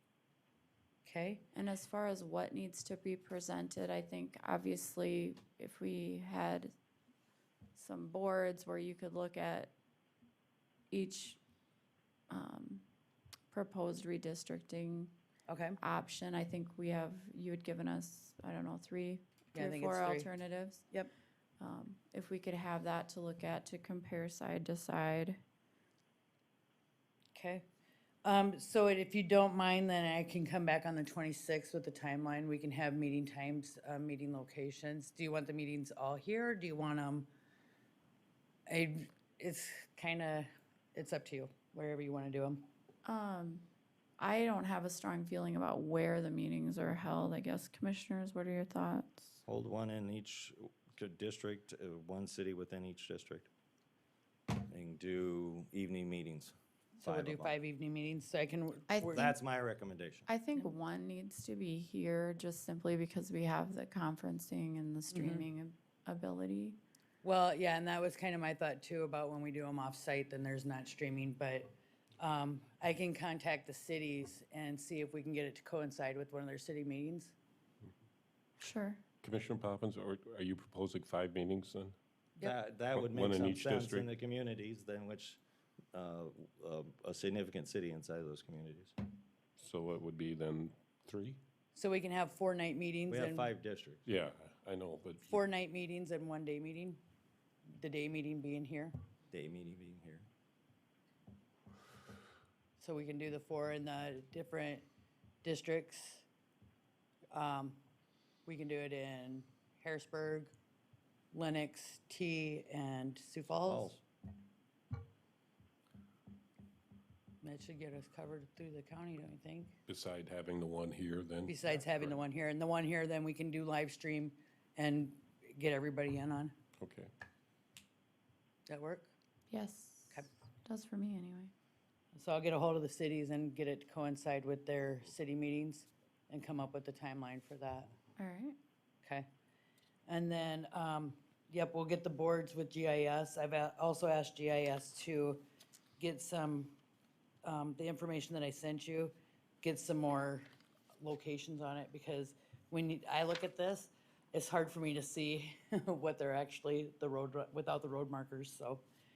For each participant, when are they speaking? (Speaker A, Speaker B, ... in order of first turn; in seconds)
Speaker A: 1.1-1.5, 15.5-15.8, 19.5-20.3, 27.4-27.7, 28.2-37.3, 38.7-42.7, 57.0-59.3, 65.1-65.5, 67.2-71.7, 72.2-77.3, 91.7-93.5, 95.2-97.0, 97.7-98.9, 102.8-104.9, 105.4-106.3, 107.3-107.8, 108.5-110.5, 111.3-113.9, 117.4-119.8, 121.5-126.5, 128.7-129.1, 132.1-137.9, 140.1-145.4, 146.0-146.8, 147.4-150.4, 151.0-158.8
Speaker B: 1.5-6.7, 7.7-9.7, 10.9-11.4, 12.3-12.9, 13.5-15.2, 15.8-21.0, 21.6-25.4, 43.0-43.7, 44.2-49.4, 58.9-59.2, 60.3-66.8, 78.6-79.0, 129.5-131.5, 138.2-138.6
Speaker C: 49.5-53.5, 54.5-57.6, 59.1-60.3, 82.4-85.4, 85.9-89.0, 93.1-94.0, 99.3-100.3, 113.7-114.0
Speaker D: 79.2-82.0, 82.9-84.1, 89.6-91.4, 94.1-95.4, 119.9-122.2, 126.8-127.1